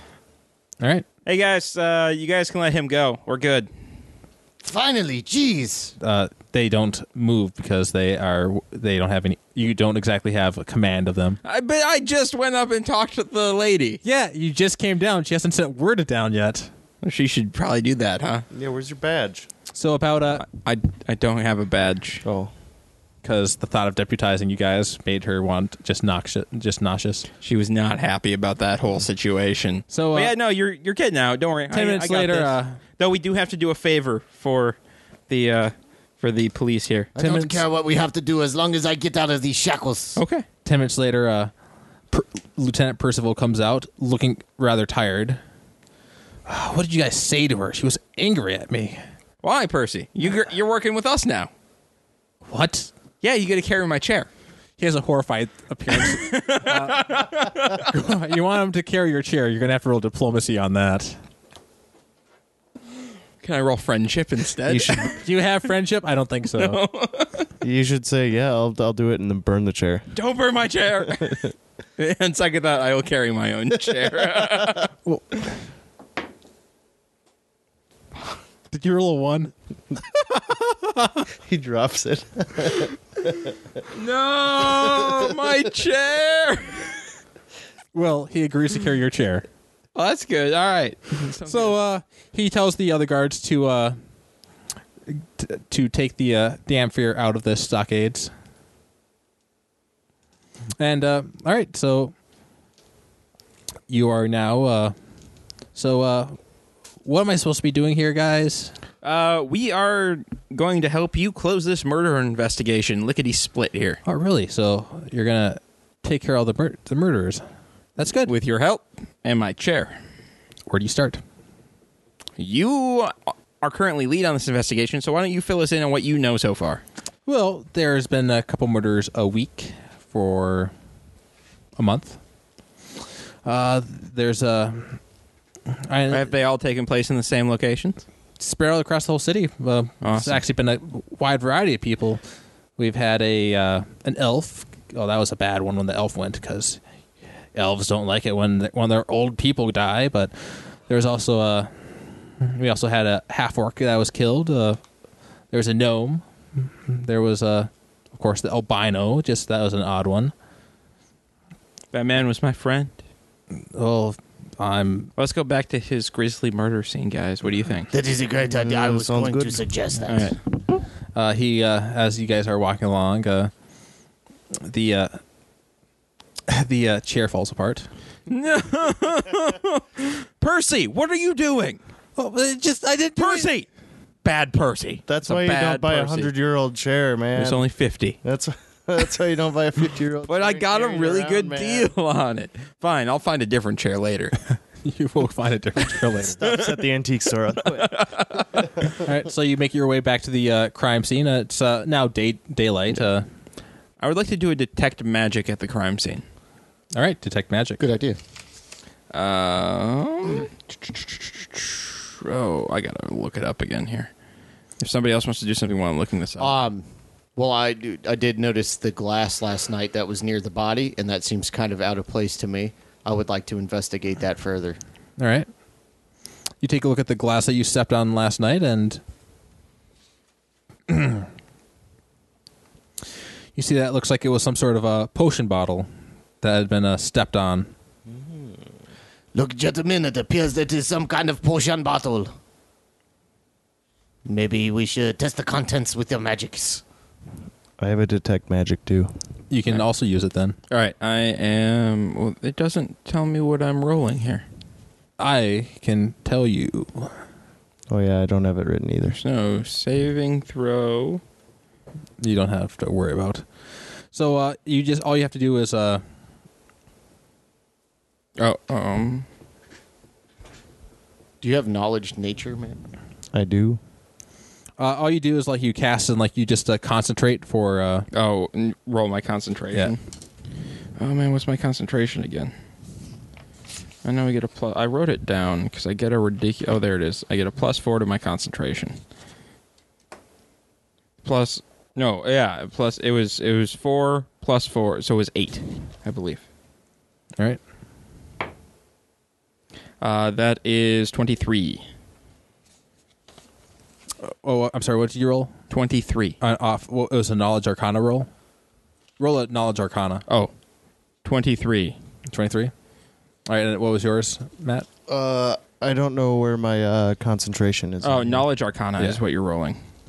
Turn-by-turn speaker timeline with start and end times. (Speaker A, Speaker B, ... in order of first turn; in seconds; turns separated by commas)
Speaker A: 0.8-1.1, Speaker B: 1.2-3.7, Speaker C: 4.6-5.9, Speaker A: 6.0-11.4, Speaker B: 11.4-14.0, Speaker A: 14.0-16.7, Speaker B: 17.0-18.4, Speaker D: 18.5-19.5, Speaker A: 19.7-20.4, Speaker B: 20.4-22.2, Speaker D: 22.2-22.5, Speaker A: 23.2-27.3, Speaker B: 27.4-34.8, Speaker A: 29.9-30.3, Speaker A: 31.7-32.8, Speaker B: 35.3-37.1, Speaker C: 37.1-40.2, Speaker A: 37.2-37.6, Speaker B: 40.2-40.4, Speaker A: 40.6-41.5, Speaker A: 42.1-45.4, Speaker A: 46.5-49.0, Speaker B: 49.4-51.5, Speaker A: 52.5-52.9, Speaker B: 53.2-54.3, Speaker A: 54.8-61.2, Speaker B: 56.0-57.9, Speaker B: 63.4-65.3, Speaker D: 64.7-65.1, Speaker A: 65.2-66.8, Speaker B: 66.6-67.5, Speaker D: 67.6-70.1, Speaker B: 70.1-74.9, Speaker A: 78.7-79.5, Speaker A: 80.1-81.2, Speaker D: 81.4-83.5, Speaker B: 83.9-87.0, Speaker A: 87.9-89.4, Speaker B: 89.9-91.7, Speaker A: 91.4-94.0, Speaker A: 95.1-98.3, Speaker A: 100.8-102.1, Speaker A: 103.9-104.9, Speaker A: 105.7-106.4, Speaker A: 107.0-108.7, Speaker B: 109.0-114.0, Speaker A: 114.0-117.4, Speaker A: 118.0-118.3, Speaker B: 118.3-119.9, Speaker A: 120.7-121.2, Speaker B: 122.4-126.8, Speaker A: 127.2-130.7, Speaker A: 131.8-132.2, Speaker A: 133.4-135.0, Speaker A: 135.7-136.3, Speaker B: 136.1-138.0, Speaker A: 138.4-142.2, Speaker B: 140.0-140.4, Speaker A: 142.8-146.8, Speaker A: 147.5-151.7, Speaker A: 152.4-154.8, Speaker A: 155.5-160.3, Speaker B: 161.9-162.9, Speaker A: 163.7-165.1, Speaker B: 165.2-167.9, Speaker C: 167.9-170.3, Speaker D: 168.5-169.6, Speaker B: 170.1-170.3, Speaker A: 171.1-173.5, Speaker A: 174.6-175.2, Speaker A: 176.5-177.9, Speaker B: 178.3-181.8, Speaker A: 182.2-183.5, Speaker B: 183.2-183.7, Speaker B: 184.2-186.3, Speaker D: 185.1-187.6, Speaker B: 187.3-188.2, Speaker D: 188.2-191.9, Speaker B: 190.3-194.4, Speaker A: 194.8-196.4, Speaker D: 196.3-198.1, Speaker B: 196.4-196.8, Speaker B: 197.6-198.9, Speaker A: 199.0-203.3, Speaker B: 204.0-206.2, Speaker A: 206.9-207.8, Speaker C: 207.8-208.2, Speaker B: 209.1-214.1, Speaker B: 214.8-216.5, Speaker C: 216.4-216.8, Speaker C: 217.3-224.8, Speaker A: 225.2-225.5, Speaker A: 226.6-229.0, Speaker A: 230.9-231.2, Speaker A: 233.5-235.9, Speaker A: 236.4-237.7, Speaker D: 238.1-238.5, Speaker C: 239.3-242.3, Speaker C: 244.2-246.8, Speaker D: 247.8-249.1, Speaker A: 249.5-250.6, Speaker B: 250.7-254.4, Speaker A: 255.2-257.1, Speaker D: 257.9-259.2, Speaker B: 259.1-261.2, Speaker A: 262.2-263.5, Speaker A: 264.1-266.0, Speaker B: 268.4-269.2, Speaker C: 271.4-272.8, Speaker D: 273.3-273.8, Speaker A: 274.8-278.1, Speaker B: 278.1-280.0, Speaker B: 281.0-282.5, Speaker B: 284.0-288.9, Speaker B: 291.2-296.4, Speaker B: 300.0-301.8, Speaker A: 304.2-305.5, Speaker B: 305.7-306.4, Speaker A: 306.4-308.3, Speaker A: 309.2-310.2, Speaker B: 311.2-312.0, Speaker A: 312.3-312.7, Speaker A: 313.5-314.9, Speaker D: 315.1-318.4, Speaker B: 318.0-319.8